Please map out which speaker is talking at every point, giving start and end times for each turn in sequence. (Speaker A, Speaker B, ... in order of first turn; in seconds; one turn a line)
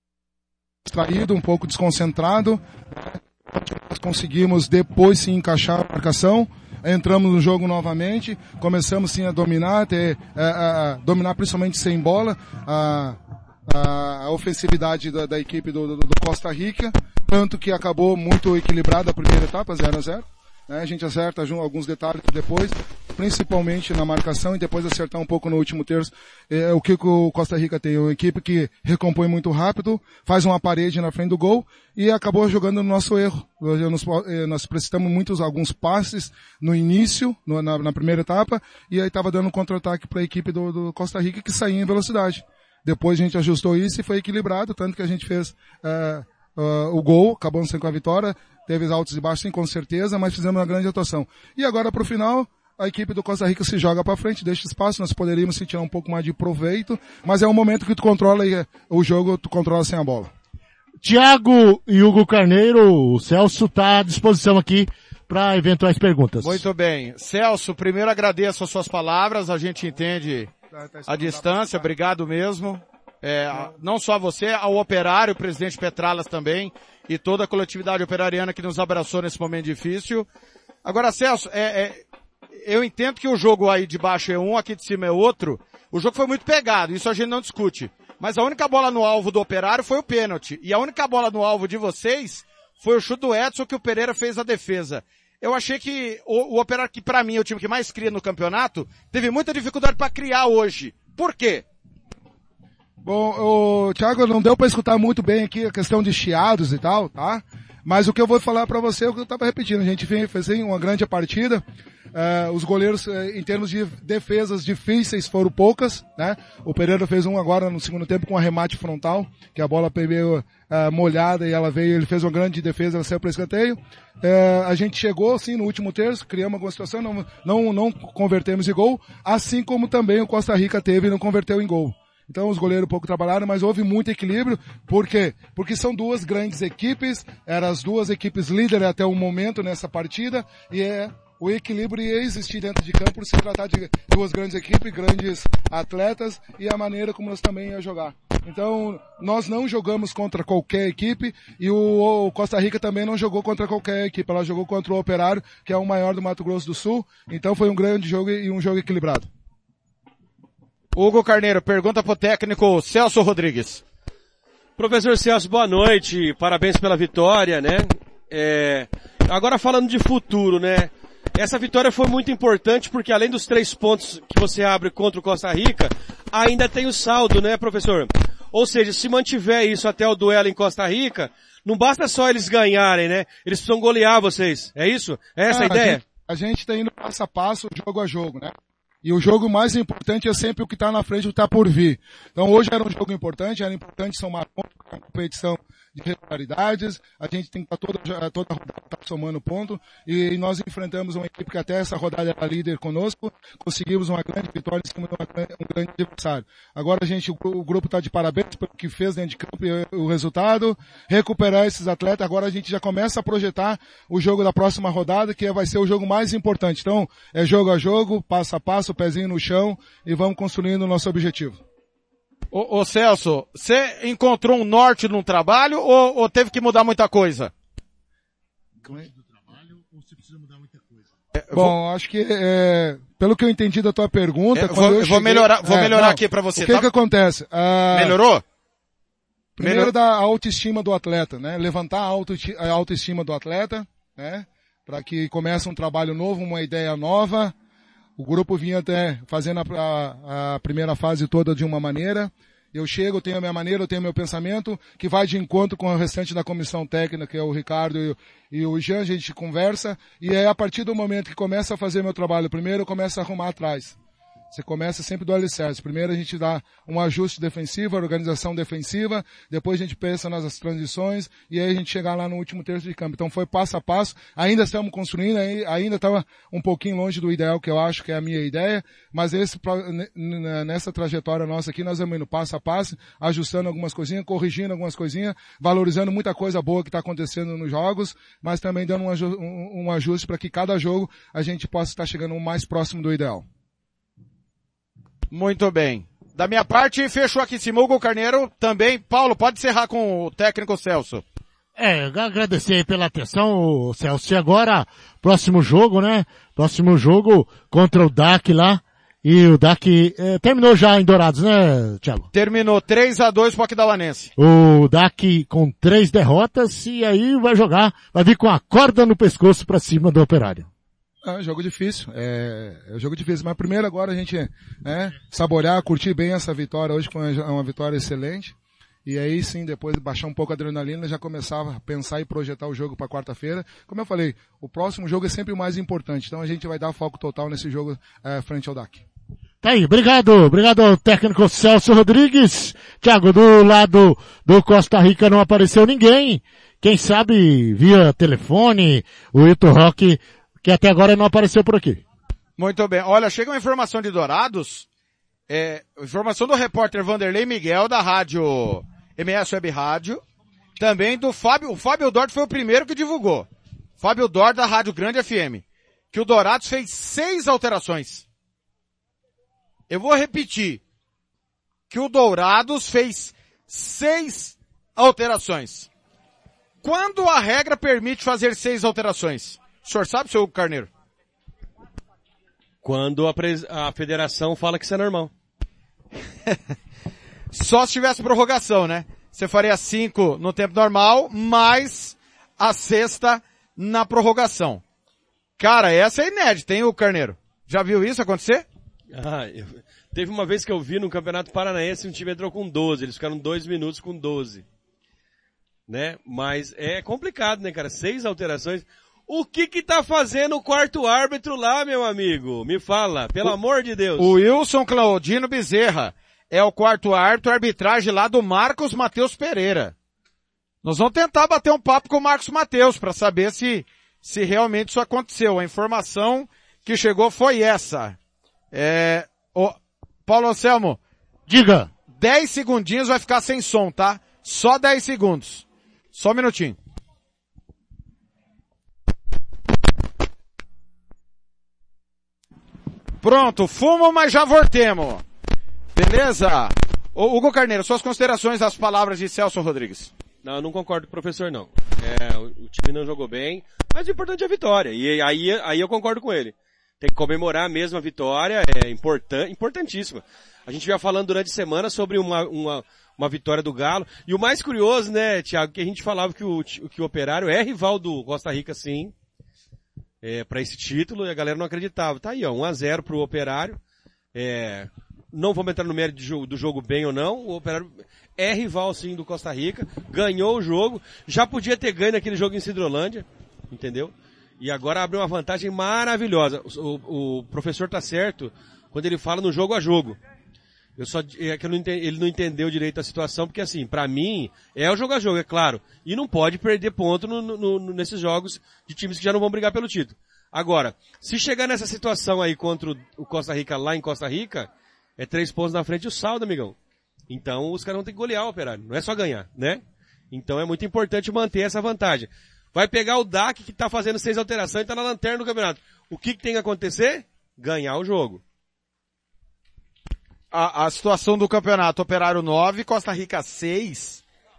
Speaker A: 0.9-60.3
Speaker B: 61.0-66.7
Speaker C: 66.4-70.5
Speaker A: 70.7-71.9
Speaker C: 71.1-80.3
Speaker C: 80.8-82.0
Speaker C: 82.6-101.7
Speaker A: 103.0-159.3
Speaker C: 160.9-163.8
Speaker D: 164.8-186.0
Speaker A: 185.5-188.5
Speaker A: 189.0-221.6
Speaker C: 222.5-227.5
Speaker B: 228.8-231.1
Speaker C: 231.3-231.8
Speaker A: 231.5-238.2
Speaker C: 234.5-236.9
Speaker C: 237.9-238.4
Speaker A: 239.6-247.6
Speaker C: 239.6-239.9
Speaker A: 248.2-264.0
Speaker A: 264.5-293.5
Speaker C: 295.3-301.2
Speaker B: 301.8-312.3
Speaker C: 312.3-314.3
Speaker B: 314.4-320.7
Speaker A: 321.2-328.5
Speaker A: 329.1-339.0
Speaker B: 339.6-352.0
Speaker C: 352.6-354.9
Speaker C: 355.5-360.2
Speaker C: 360.8-363.5
Speaker C: 364.0-368.2
Speaker C: 369.9-370.8
Speaker C: 371.9-375.9
Speaker C: 376.8-380.9
Speaker D: 382.8-385.3
Speaker C: 387.5-394.8
Speaker C: 395.6-398.7
Speaker D: 399.1-404.6
Speaker D: 405.9-414.3
Speaker C: 414.2-419.9
Speaker C: 420.8-428.2
Speaker C: 428.7-431.0
Speaker B: 431.5-431.9
Speaker C: 432.1-436.8
Speaker C: 443.2-445.2
Speaker C: 445.9-450.1
Speaker D: 450.4-469.1
Speaker D: 470.2-473.8
Speaker D: 474.3-490.2
Speaker D: 491.0-506.8
Speaker D: 507.3-518.4
Speaker C: 520.5-524.2